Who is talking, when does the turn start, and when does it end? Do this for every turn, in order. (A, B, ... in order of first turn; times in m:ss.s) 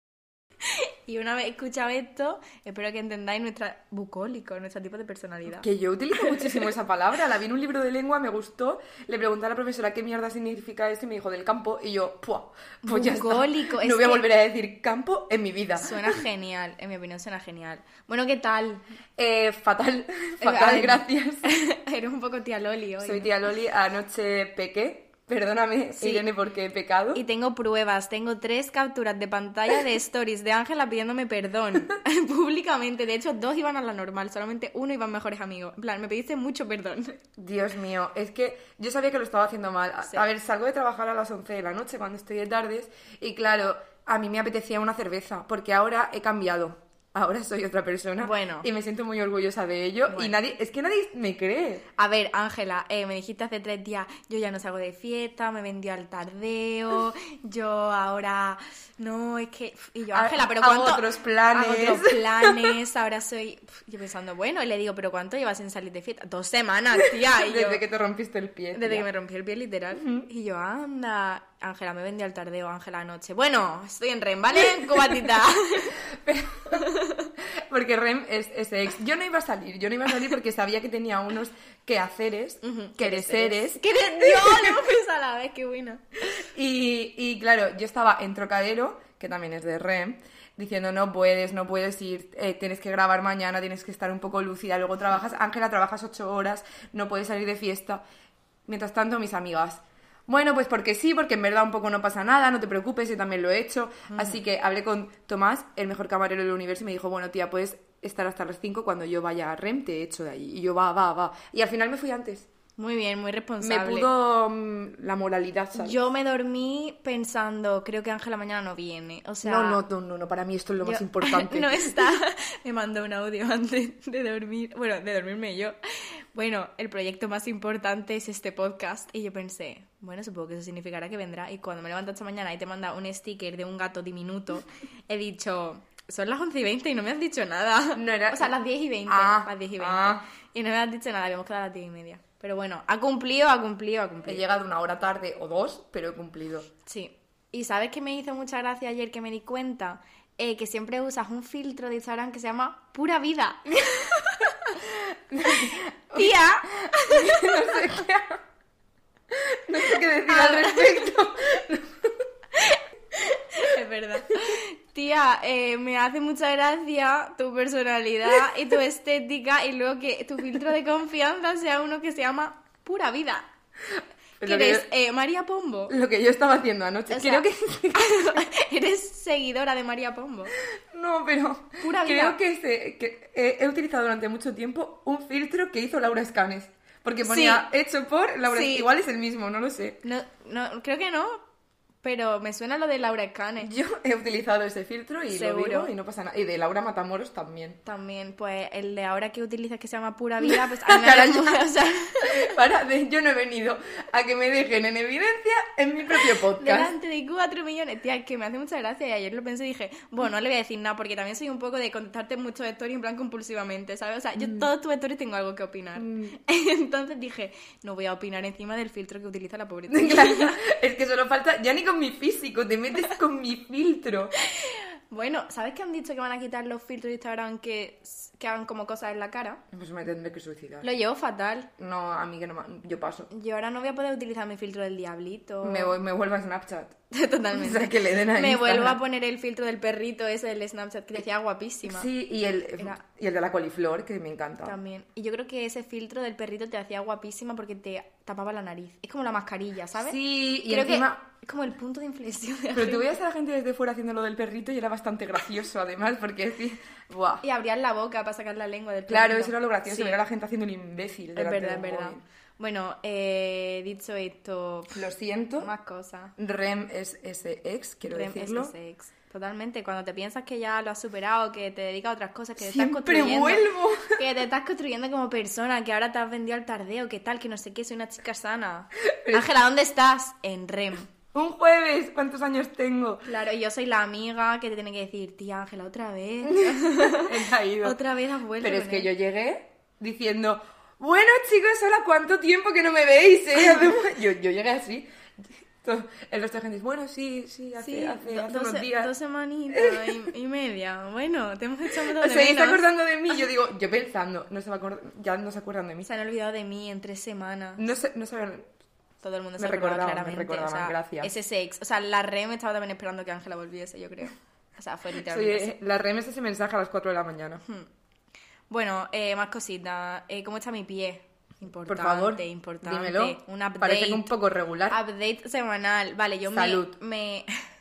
0:00.6-0:06.7 A
0:05.5-0:16.2 B
0:12.8-0:14.2 A
0:15.8-0:18.8 A
0:19.2-0:21.5 B
0:20.4-0:23.3 A
0:23.0-0:27.2 B
0:26.0-0:26.2 A
0:27.1-0:37.2 A
0:37.4-0:51.8 B
0:48.2-0:48.7 A
0:50.1-0:50.3 A
0:52.0-1:07.8 A
1:00.1-1:02.8 B
1:07.4-1:09.1 B
1:08.7-1:16.0 A
1:09.9-1:10.2 B
1:16.0-1:16.9 B
1:16.7-1:17.3 A
1:17.5-1:24.8 B
1:22.6-1:26.0 A
1:26.4-1:38.0 B
1:38.6-1:52.5 B
1:44.1-1:44.4 A
1:52.8-1:54.1 A
1:53.6-1:56.0 B
1:55.8-1:59.8 A
1:59.4-2:02.1 B
2:00.8-2:24.4 A
2:18.0-2:18.5 B
2:19.1-2:20.2 B
2:24.2-2:26.7 B
2:26.8-2:34.7 A
2:34.8-2:38.4 B
2:35.5-2:37.9 A
2:39.3-2:42.2 B
2:40.2-2:41.1 A
2:42.6-2:53.5 A
2:54.4-2:54.9 B
2:54.4-2:55.9 A
2:55.9-2:58.4 B
2:57.1-3:00.6 A
3:00.9-3:10.0 B
3:01.8-3:02.4 A
3:07.2-3:07.7 A
3:08.5-3:08.9 A
3:10.0-3:11.4 A
3:12.0-3:13.7 A
3:13.6-3:17.8 B
3:15.3-3:15.9 A
3:17.8-3:22.5 A
3:20.4-3:21.6 B
3:22.2-3:26.9 B
3:26.2-3:40.6 A
3:34.4-3:34.7 B
3:36.0-3:36.3 B
3:39.9-3:44.3 B
3:44.4-3:49.6 A
3:49.7-3:50.9 B
3:50.8-3:51.7 A
3:51.8-3:53.3 B
3:53.3-3:56.0 A
3:55.6-3:57.0 B
3:57.1-4:02.1 A
3:57.5-3:59.0 B
4:01.8-4:04.8 B
4:04.6-4:13.1 A
4:10.0-4:11.2 B
4:12.7-4:17.4 B
4:17.4-4:20.2 A
4:19.1-4:22.2 B
4:21.4-4:25.0 A
4:24.9-4:25.7 B
4:25.6-4:26.3 A
4:26.4-4:28.7 B
4:28.1-4:41.1 A
4:32.6-4:34.2 B
4:39.0-4:39.6 B
4:41.3-4:43.2 B
4:43.2-4:49.1 A
4:46.4-4:48.0 B
4:48.6-4:59.1 B
4:57.8-5:02.8 A
4:59.7-5:00.2 B
5:01.9-5:06.1 B
5:06.0-5:07.8 A
5:07.8-5:08.7 B
5:09.2-5:15.7 A
5:09.6-5:11.3 B
5:15.1-5:17.6 B
5:18.7-5:24.3 A
5:21.9-5:25.0 B
5:24.9-5:27.6 A
5:26.5-5:27.0 B